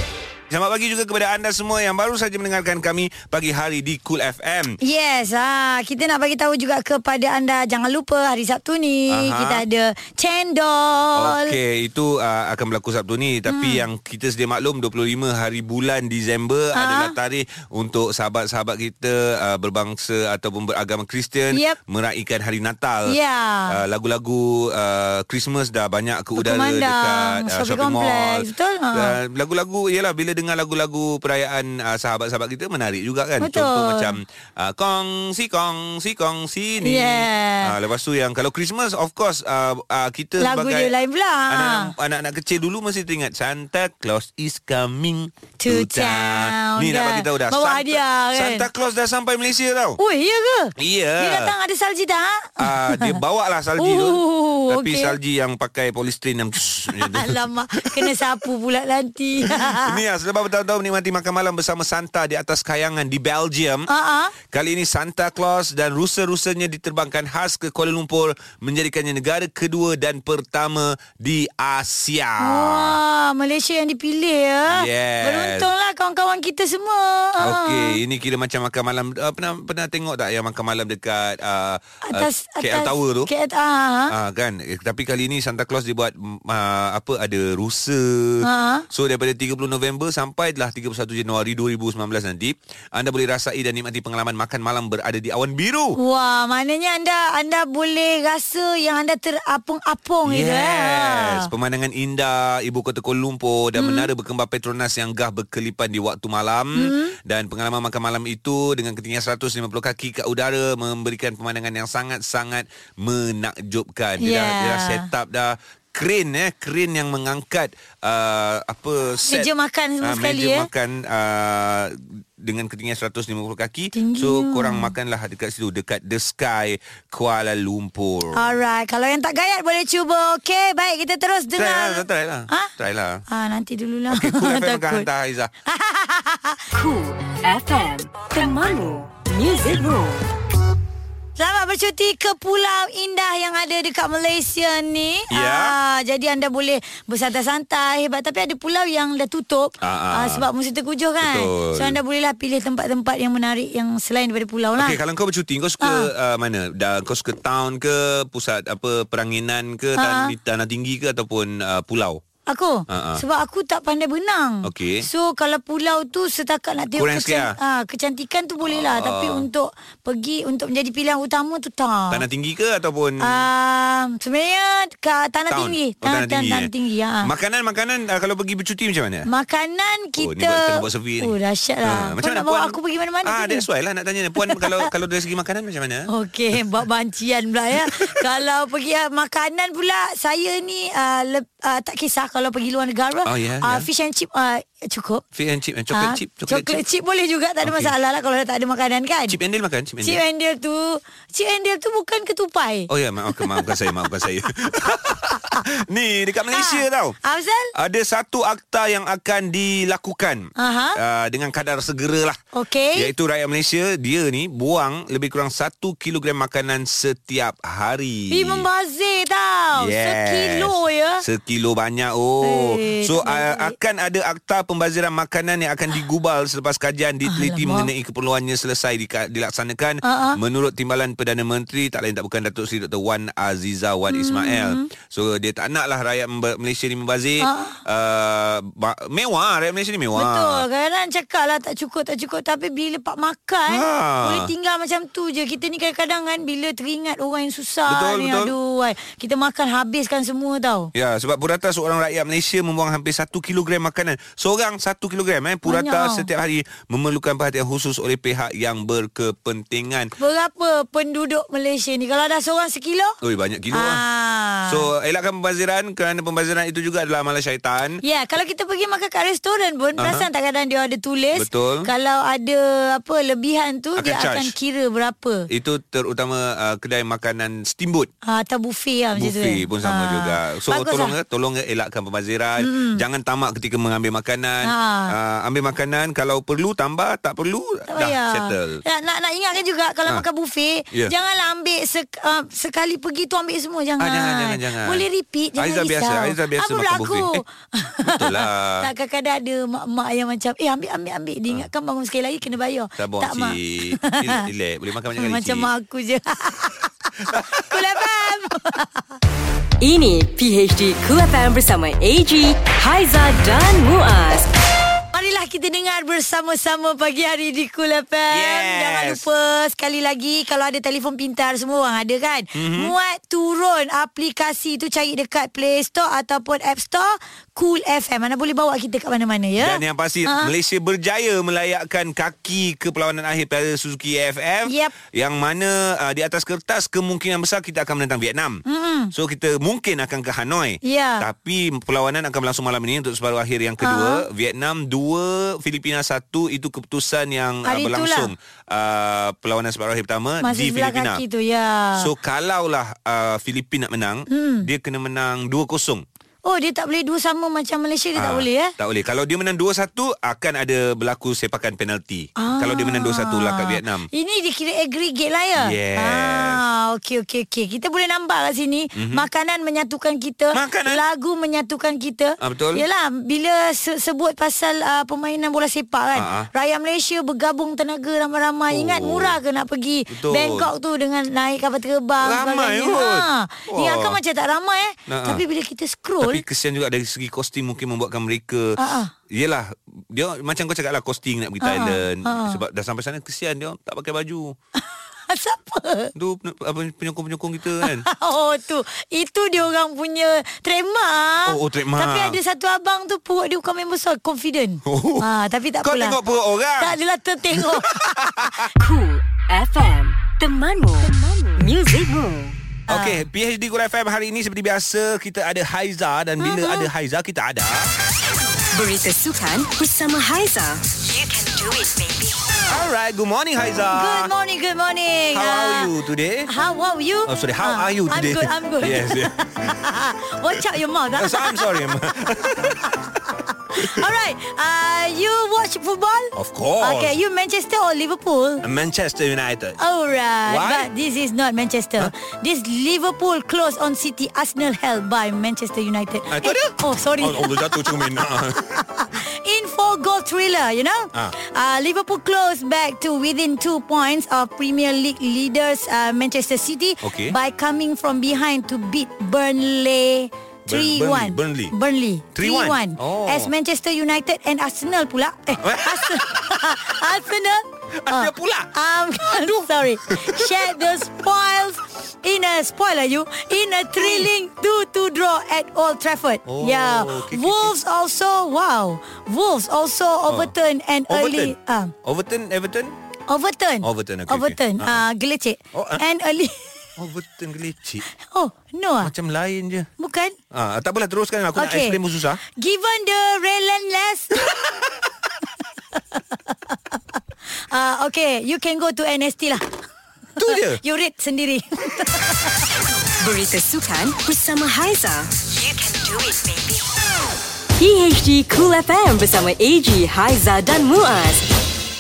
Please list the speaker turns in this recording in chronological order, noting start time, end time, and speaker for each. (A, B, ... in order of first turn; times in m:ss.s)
0:00.5-0:04.8 A
0:04.8-0:11.5 B
0:09.1-0:09.6 A
0:11.2-0:23.2 A
0:13.5-0:13.8 B
0:16.7-0:17.1 B
0:21.5-0:21.8 B
0:23.1-0:23.8 B
0:23.7-0:40.9 A
0:26.4-0:29.2 B
0:33.4-0:34.1 B
0:36.8-0:37.7 B
0:40.4-0:41.9 B
0:41.5-0:50.0 A
0:45.6-0:48.7 B
0:50.0-0:53.2 B
0:50.8-0:51.5 A
0:52.6-0:58.2 A
0:53.8-0:55.2 B
0:56.9-1:00.0 B
0:59.5-1:03.9 A
1:03.9-1:04.3 B
1:04.5-1:13.0 A
1:12.4-1:18.0 B
1:14.7-1:15.7 A
1:17.4-1:23.3 A
1:22.1-1:24.1 B
1:24.1-1:36.0 A
1:28.4-1:28.9 B
1:36.0-1:41.5 B
1:40.2-1:59.5 A
1:43.8-1:44.1 B
1:46.7-1:47.2 B
1:54.2-1:55.1 B
1:59.2-2:00.7 B
2:00.0-2:08.5 A
2:03.9-2:04.9 B
2:08.4-2:12.7 B
2:11.5-2:13.2 A
2:13.3-2:15.1 B
2:14.1-2:15.5 A
2:15.6-2:16.6 B
2:16.7-2:20.3 C
2:21.4-2:35.0 B
2:25.3-2:25.8 A
2:29.8-2:30.4 A
2:31.2-2:32.0 A
2:34.8-2:42.2 A
2:35.8-2:36.1 B
2:40.0-2:40.3 B
2:42.5-2:52.2 B
2:42.9-2:43.2 A
2:44.6-2:45.1 A
2:47.0-2:47.6 A
2:48.6-2:49.5 A
2:52.1-2:53.4 A
2:53.2-2:57.3 B
2:55.5-2:56.7 A
2:57.2-2:59.3 A
2:59.3-3:03.6 B
3:00.2-3:06.6 A
3:04.4-3:04.9 B
3:06.1-3:15.2 B
3:07.7-3:08.2 A
3:13.2-3:13.9 A
3:15.4-3:16.8 A
3:15.9-3:19.4 B
3:17.6-3:17.9 A
3:19.3-3:20.2 A
3:20.0-3:23.9 B
3:22.9-3:27.2 A
3:26.5-3:27.7 B
3:27.7-3:32.4 A
3:30.6-3:31.0 B
3:32.5-3:33.1 B
3:32.9-3:38.7 A
3:38.3-3:41.2 B
3:39.8-4:00.6 A
3:42.4-3:43.8 B
3:47.2-3:47.9 B
3:50.0-3:50.4 B
3:54.1-3:54.9 B
3:57.4-3:57.8 B
4:00.1-4:10.9 B
4:03.7-4:04.5 A
4:07.9-4:08.5 A
4:10.9-4:20.1 A
4:15.6-4:16.3 B
4:20.2-4:23.2 B
4:23.2-4:24.0 A
4:23.7-4:24.8 B
4:24.7-4:28.0 A
4:28.0-4:35.5 B
4:30.0-4:30.3 A
4:31.4-4:31.9 A
4:34.0-4:34.5 A
4:35.5-4:38.1 A
4:38.2-4:41.1 B
4:39.2-4:48.8 A
4:42.6-4:43.0 B
4:44.6-4:45.1 B
4:47.9-5:04.5 B
4:54.0-4:57.4 A
4:58.0-4:58.9 A
5:03.0-5:05.7 A
5:05.2-5:09.1 B
5:07.2-5:08.0 A
5:09.8-5:14.5 C
5:15.1-5:30.5 B
5:18.3-5:19.2 A
5:22.5-5:22.9 A
5:29.6-5:51.2 A
5:34.7-5:34.9 B
5:38.6-5:39.1 B
5:40.8-5:41.2 B
5:43.8-5:44.2 B
5:47.6-5:48.3 B
5:50.4-5:52.1 B
5:52.0-5:56.0 A
5:54.3-5:54.7 B
5:56.4-5:58.7 B
5:58.2-6:04.1 A
6:02.4-6:26.4 B
6:05.6-6:06.6 A
6:08.9-6:09.3 A
6:10.5-6:11.0 A
6:12.4-6:12.8 A
6:16.2-6:16.5 A
6:18.7-6:19.4 A
6:20.1-6:20.7 A
6:22.2-6:24.2 A
6:25.1-6:25.4 A
6:26.2-6:28.8 A
6:28.8-6:29.1 B
6:29.3-6:34.6 A
6:31.6-6:32.6 B
6:35.3-6:36.1 B
6:36.2-6:38.1 A
6:37.8-6:46.2 B
6:41.5-6:42.4 A
6:44.8-6:45.3 A
6:45.8-6:47.0 A
6:46.8-6:48.0 B
6:47.5-6:48.7 A
6:48.8-6:52.6 C
6:52.9-6:57.9 A
6:52.9-6:53.2 B
6:56.4-6:56.9 B
6:58.7-7:02.5 C
7:02.7-7:04.3 A
7:03.9-7:05.9 B
7:05.3-7:06.5 A
7:06.5-7:11.7 B
7:07.3-7:09.8 A
7:11.1-7:13.2 A
7:13.7-7:18.6 B
7:13.7-7:14.0 A
7:16.4-7:17.2 A
7:18.6-7:19.8 A
7:19.8-7:28.2 B
7:20.5-7:20.9 A
7:26.3-7:28.8 A
7:28.7-8:01.9 B
7:37.0-7:37.4 A
7:40.7-7:41.7 A
7:42.3-7:43.5 A
7:45.6-7:46.9 A
7:48.0-7:51.0 A
7:54.0-7:54.3 A
7:56.5-7:57.8 A
8:01.1-8:03.0 A
8:03.3-8:06.7 B
8:03.8-8:05.0 A
8:05.7-8:06.0 A
8:07.0-8:08.0 A
8:08.2-8:09.1 B
8:09.0-8:09.9 A
8:10.0-8:10.4 B
8:10.5-8:12.4 A
8:11.6-8:12.0 B
8:12.5-8:14.5 B
8:14.4-8:15.1 A
8:16.1-8:19.6 B
8:20.4-8:20.8 A
8:20.4-8:22.6 B
8:23.2-8:26.9 C
8:27.8-8:31.4 C